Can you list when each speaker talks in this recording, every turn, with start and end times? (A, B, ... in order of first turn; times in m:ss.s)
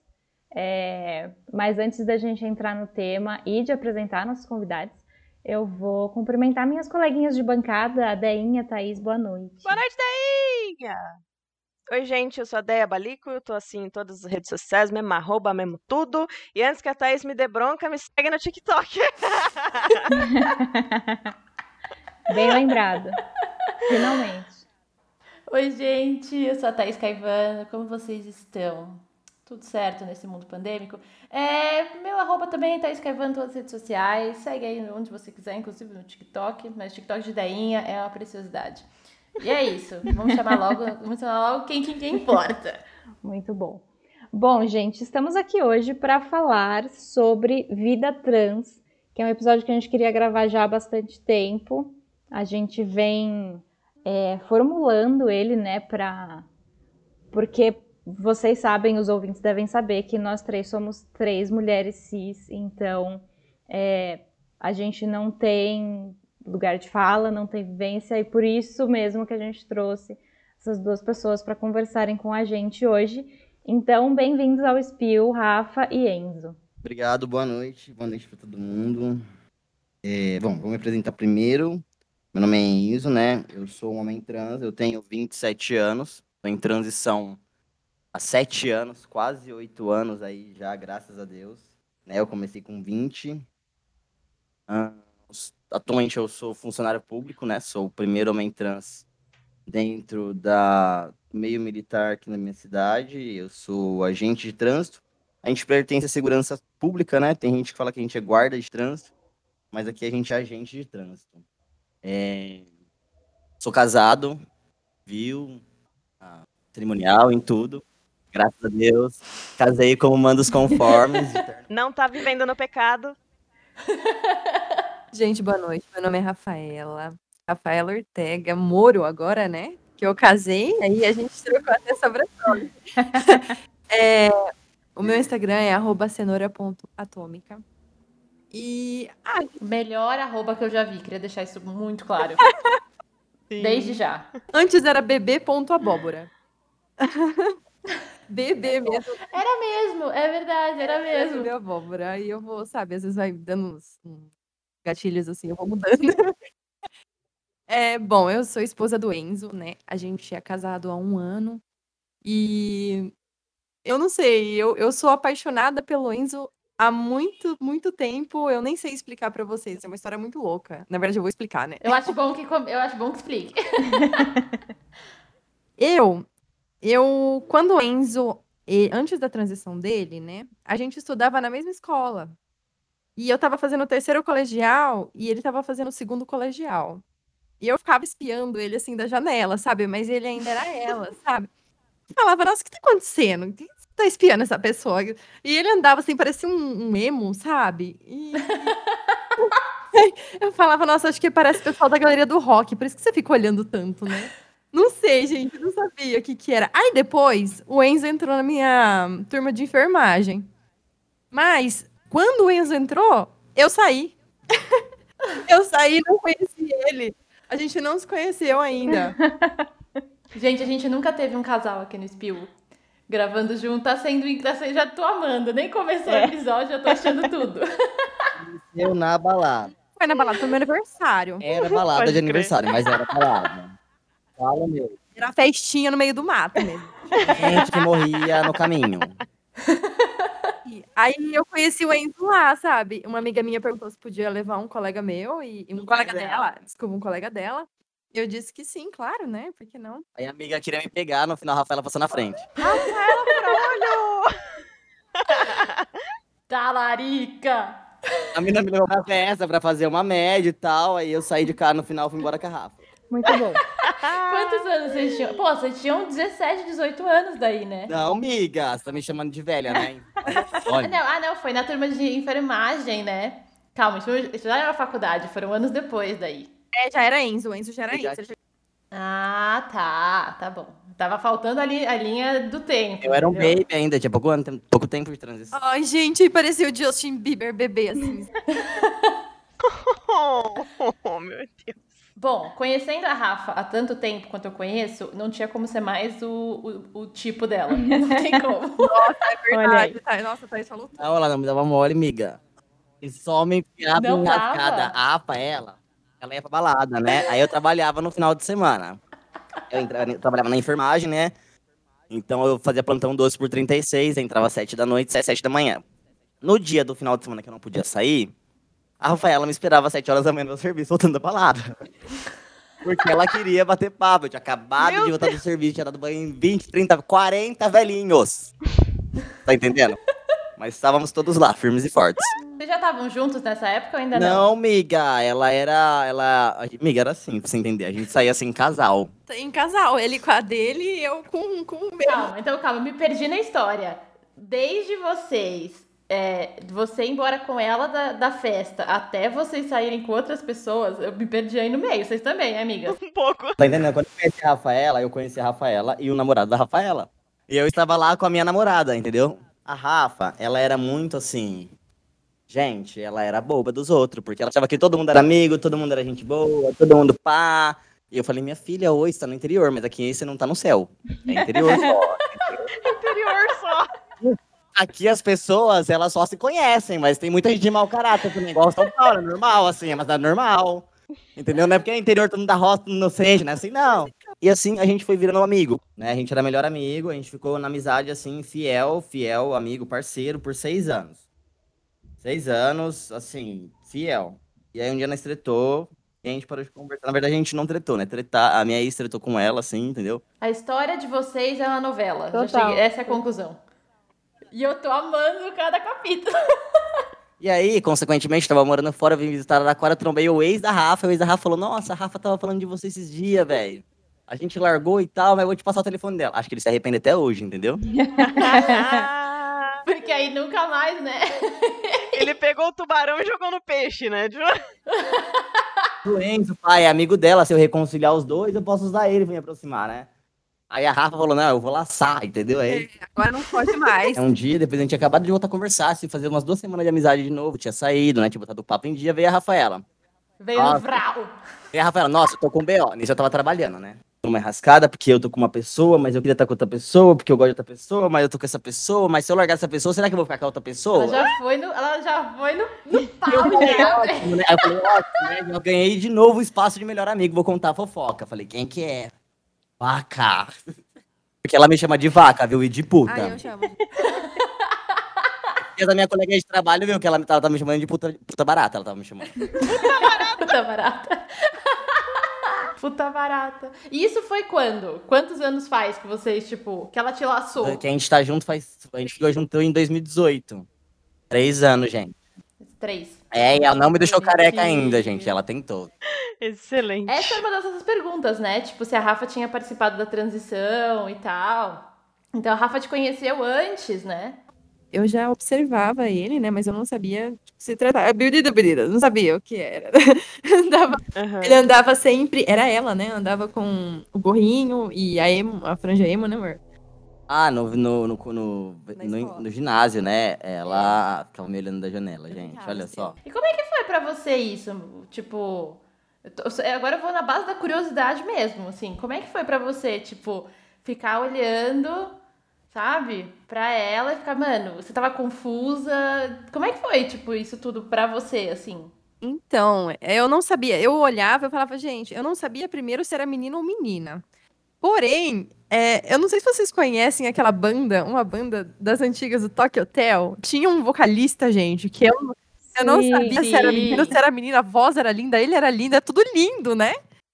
0:00.5-0:09.8 A
0:09.6-0:11.2 B
0:11.9-0:20.1 B
0:20.4-0:21.2 A
0:22.3-0:23.2 A
0:23.9-0:24.6 A
0:25.5-0:38.9 C
0:39.4-0:42.8 C
0:43.2-0:56.4 A
0:57.3-1:16.6 A
1:16.8-1:19.2 D
1:20.0-1:27.4 D
1:28.1-1:33.4 D
1:34.7-1:39.0 D
1:39.7-1:49.1 D
1:49.7-1:51.4 D
1:52.0-1:52.6 D
1:53.6-1:54.4 D
1:55.0-1:55.6 D
1:56.2-2:01.6 D
2:01.7-2:03.2 B
2:03.9-2:04.6 C
2:05.1-2:14.4 E
2:15.0-2:17.6 E
2:18.5-2:19.6 E
2:19.6-2:22.5 C
2:22.4-2:22.8 E
2:23.5-2:24.0 E
2:23.6-2:24.3 C
2:24.5-2:26.3 E
2:27.0-2:27.6 E
2:28.3-2:29.2 E
2:29.3-2:31.5 C
2:30.9-2:34.3 E
2:34.8-2:36.3 E
2:37.7-2:41.6 E
2:42.2-2:43.1 E
2:43.8-2:52.1 E
2:51.8-2:54.3 C
2:55.8-2:56.2 E
2:56.8-3:02.3 E
3:03.2-3:07.0 E
3:07.6-3:11.5 E
3:12.1-3:18.8 E
3:19.4-3:30.5 E
3:31.3-3:34.8 E
3:35.4-3:39.2 E
3:39.1-3:39.7 A
3:40.3-3:42.5 C
3:43.1-3:48.1 C
3:48.4-3:49.7 D
3:49.9-3:51.4 E
3:51.4-3:53.8 D
3:51.5-3:52.5 B
3:54.4-3:55.0 D
3:55.2-3:57.6 E
3:57.3-3:59.2 D
3:59.7-4:00.3 C
4:00.6-4:10.0 E
4:05.8-4:06.5 D
4:10.2-4:12.5 D
4:12.6-4:14.0 E
4:12.6-4:13.2 C
4:12.7-4:14.3 B
4:15.2-4:15.9 B
4:16.5-4:18.2 C
4:18.3-4:22.8 D
4:23.1-4:23.6 A
4:23.9-4:27.9 C
4:23.9-4:24.9 B
4:27.9-4:31.0 D
4:30.7-4:36.5 C
4:36.7-4:38.4 E
4:37.9-4:38.2 D
4:38.9-4:43.6 C
4:43.0-4:45.6 D
4:45.5-4:48.3 E
4:48.6-4:49.1 C
4:49.6-4:51.8 B
4:52.2-4:59.1 C
4:58.8-5:01.1 E
4:59.5-5:00.0 A
5:01.0-5:02.4 D
5:03.0-5:09.0 D
5:03.9-5:04.9 C
5:09.7-5:11.3 D
5:12.1-5:15.8 D
5:16.4-5:18.3 D
5:19.0-5:21.8 D
5:22.8-5:28.5 D
5:24.8-5:25.4 B
5:29.4-5:30.0 D
5:30.6-5:32.3 D
5:32.6-5:34.5 C
5:34.1-5:39.1 D
5:39.3-5:42.3 E
5:42.1-5:53.0 C
5:52.9-5:53.6 B
5:53.6-6:01.7 D
6:02.5-6:12.7 D
6:12.8-6:13.9 B
6:14.2-6:31.2 D
6:32.2-6:40.2 D
6:40.4-6:43.6 C
6:42.3-6:43.2 A
6:44.5-6:46.8 C
6:47.4-6:57.8 D
6:58.0-6:59.0 A
6:58.4-6:59.8 B
6:59.9-7:02.3 C
7:02.1-7:04.6 B
7:04.9-7:05.6 C
7:06.0-7:10.1 D
7:10.7-7:12.9 D
7:12.7-7:14.2 E
7:14.2-7:19.8 D
7:20.4-7:21.3 C
7:20.6-7:20.8 D
7:21.7-7:31.2 D
7:30.9-7:34.4 C
7:33.3-7:39.1 D
7:33.4-7:34.1 E
7:39.8-7:40.5 D
7:41.4-7:43.4 D
7:43.1-7:43.9 E
7:44.0-7:44.5 C
7:45.8-7:49.5 D
7:49.7-7:50.5 B
7:49.8-7:52.2 C
7:52.8-7:57.8 C
7:57.6-8:00.7 D
8:01.3-8:02.2 D
8:02.6-8:05.4 C
8:03.3-8:05.9 D
8:06.1-8:07.4 B
8:07.1-8:14.4 C
8:14.9-8:26.6 E
8:21.2-8:21.6 B
8:27.3-8:33.1 D
8:29.0-8:29.5 E
8:30.7-8:31.0 E
8:32.3-8:33.2 E
8:33.2-8:42.2 C
8:42.7-8:48.9 C
8:49.2-8:54.2 E
8:54.8-9:07.0 E
9:02.8-9:03.4 A
9:03.4-9:04.2 C